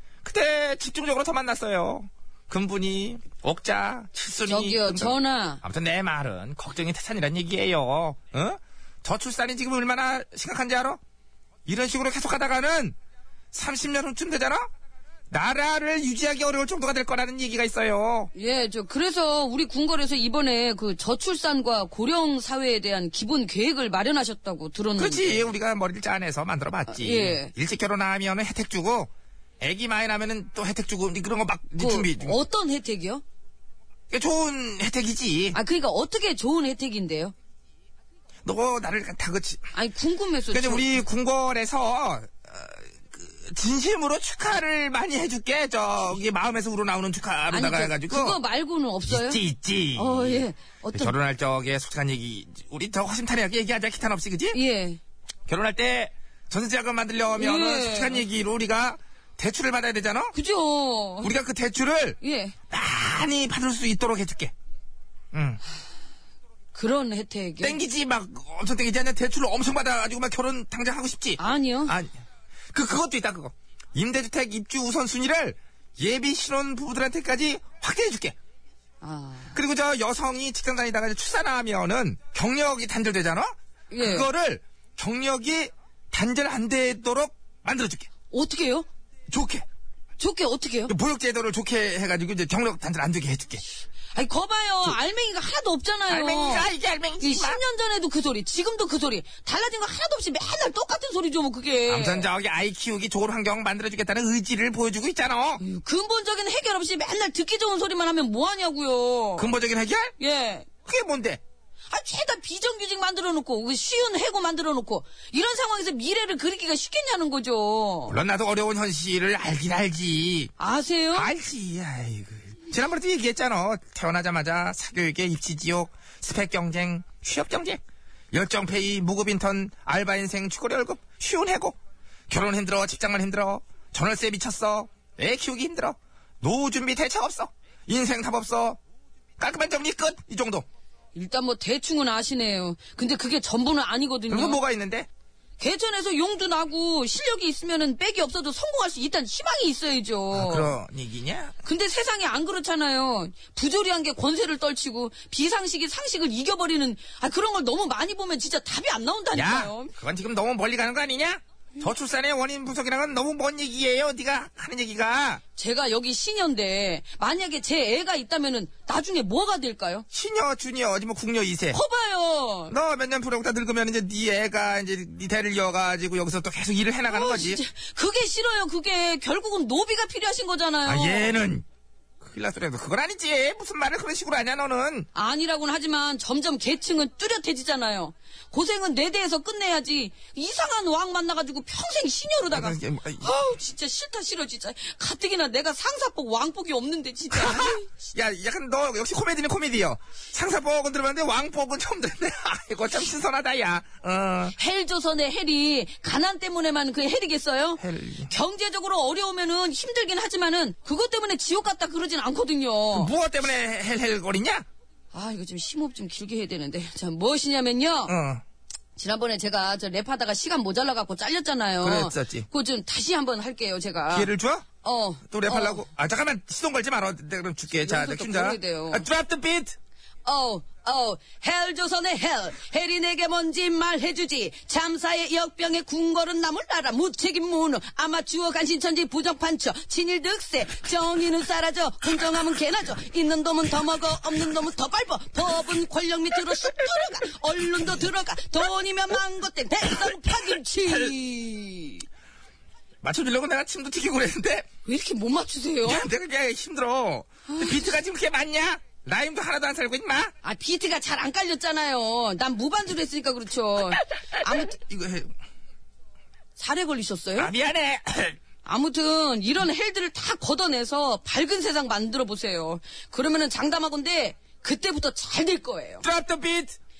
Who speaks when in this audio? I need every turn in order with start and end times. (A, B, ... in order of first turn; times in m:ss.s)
0:00.2-0:11.0 A
0:04.4-0:05.6 B
0:11.6-0:13.0 A
0:13.5-0:14.7 A
0:15.3-0:18.3 A
0:18.3-0:25.5 B
0:25.0-0:29.1 A
0:26.9-0:27.5 B
0:29.6-0:32.4 A
0:31.8-0:33.2 B
0:34.1-0:35.6 A
0:35.5-0:37.3 B
0:38.4-0:39.7 A
0:39.7-0:41.0 B
0:40.5-0:48.4 A
0:47.5-0:49.4 B
0:49.1-0:54.6 A
0:49.9-0:51.1 B
0:54.5-0:55.0 B
0:55.5-1:00.3 A
0:57.3-0:58.2 B
1:00.3-1:01.3 B
1:01.2-1:02.2 A
1:02.2-1:02.6 B
1:02.7-1:04.5 A
1:05.3-1:05.6 A
1:06.7-1:07.8 B
1:07.6-1:12.1 A
1:11.4-1:12.0 B
1:12.7-1:18.4 A
1:19.0-1:19.6 B
1:19.5-1:28.1 A
1:23.9-1:24.3 B
1:28.3-1:28.9 B
1:29.3-1:29.6 A
1:30.2-1:30.9 B
1:30.9-1:33.6 A
1:34.1-1:42.3 B
1:36.1-1:37.6 A
1:41.9-1:45.6 A
1:45.6-1:49.5 B
1:49.4-1:50.1 A
1:50.2-1:50.7 B
1:50.8-1:51.4 A
1:51.9-1:58.2 B
1:58.1-2:00.5 A
2:00.6-2:01.3 B
2:01.1-2:07.8 A
2:08.3-2:11.8 A
2:12.3-2:18.8 A
2:19.4-2:20.7 A
2:21.1-2:24.6 B
2:24.3-2:25.1 A
2:25.6-2:30.8 B
2:30.3-2:31.6 A
2:31.6-2:39.9 B
2:39.3-2:45.4 A
2:45.6-2:50.0 B
2:50.1-2:51.8 A
2:51.7-2:52.7 B
2:52.7-2:57.6 A
2:57.1-3:01.4 B
3:00.8-3:01.6 A
3:02.2-3:05.1 A
3:05.1-3:17.8 B
3:12.5-3:13.4 A
3:17.3-3:24.5 A
3:24.5-3:33.1 B
3:27.8-3:28.3 A
3:32.9-3:34.6 A
3:35.1-3:38.1 B
3:38.1-3:38.4 A
3:39.0-3:45.8 B
3:41.8-3:42.5 A
3:44.1-3:44.6 A
3:45.3-3:49.7 A
3:47.7-3:49.0 B
3:50.2-4:12.0 B
4:10.8-4:11.1 A
4:13.0-4:14.7 A
4:14.8-4:16.1 B
4:15.8-4:20.3 A
4:17.5-4:17.8 B
4:20.4-4:24.8 B
4:24.6-4:25.3 A
4:26.6-4:27.5 B
4:27.4-4:28.4 A
4:28.6-4:36.0 B
4:36.0-4:36.8 A